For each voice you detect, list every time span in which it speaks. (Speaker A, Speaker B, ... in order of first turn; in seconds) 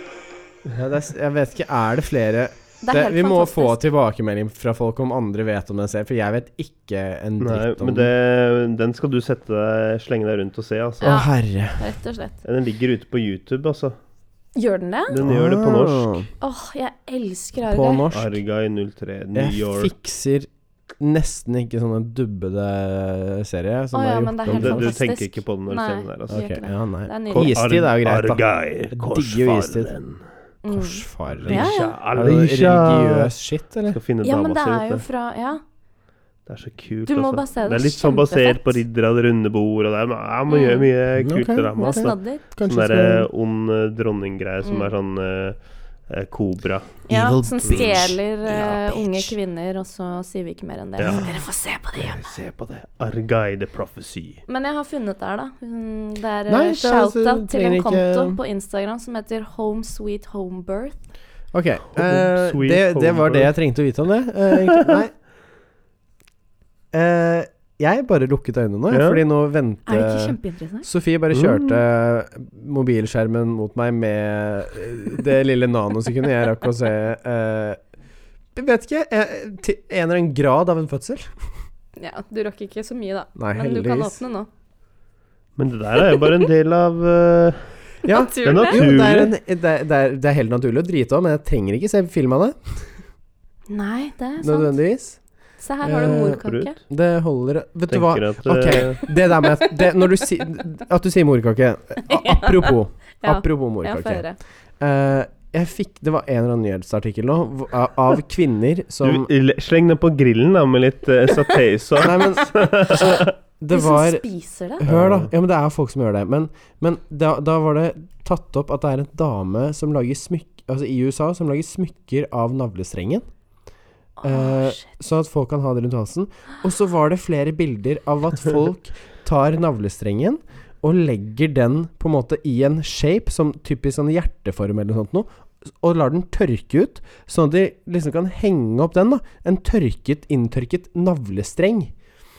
Speaker A: 0.7-8.1, 11.0-11.8, 15.2-16.3, 17.7-18.4, 19.3-24.9, 26.3-29.9, 30.7-34.0, 41.1-43.3, 47.1-49.3, 56.5-58.4, 61.5-65.2, 66.9-77.8, 78.5-81.3, 83.3-84.2, 88.0-92.9, 94.4-95.2, 95.8-104.2, 104.8-109.3, 112.0-114.2, 114.8-123.2, 124.2-141.9
Speaker B: 2.8-3.8, 11.0-12.4, 14.5-15.2, 16.4-18.1, 23.9-27.6, 30.6-31.9, 34.2-35.6, 37.1-38.8, 40.5-40.9, 41.8-42.4, 44.6-44.9, 47.1-52.2, 54.5-61.0, 69.8-70.9, 82.0-84.5, 88.0-88.9, 93.7-94.8, 95.6-96.8, 102.0-104.4, 113.7-114.8, 124.2-124.9
Speaker C: 7.4-11.2, 12.4-13.9, 15.1-16.2, 18.1-19.9, 24.5-26.6, 27.3-30.2, 31.3-33.3, 33.9-35.0, 36.5-47.0, 47.6-48.0, 51.0-51.3, 51.9-54.4, 61.9-63.5, 64.6-65.0, 68.9-69.2, 71.3-71.8, 85.5-87.7, 88.4-89.3, 96.3-96.7, 97.9-99.1, 109.0-113.3, 114.8-115.3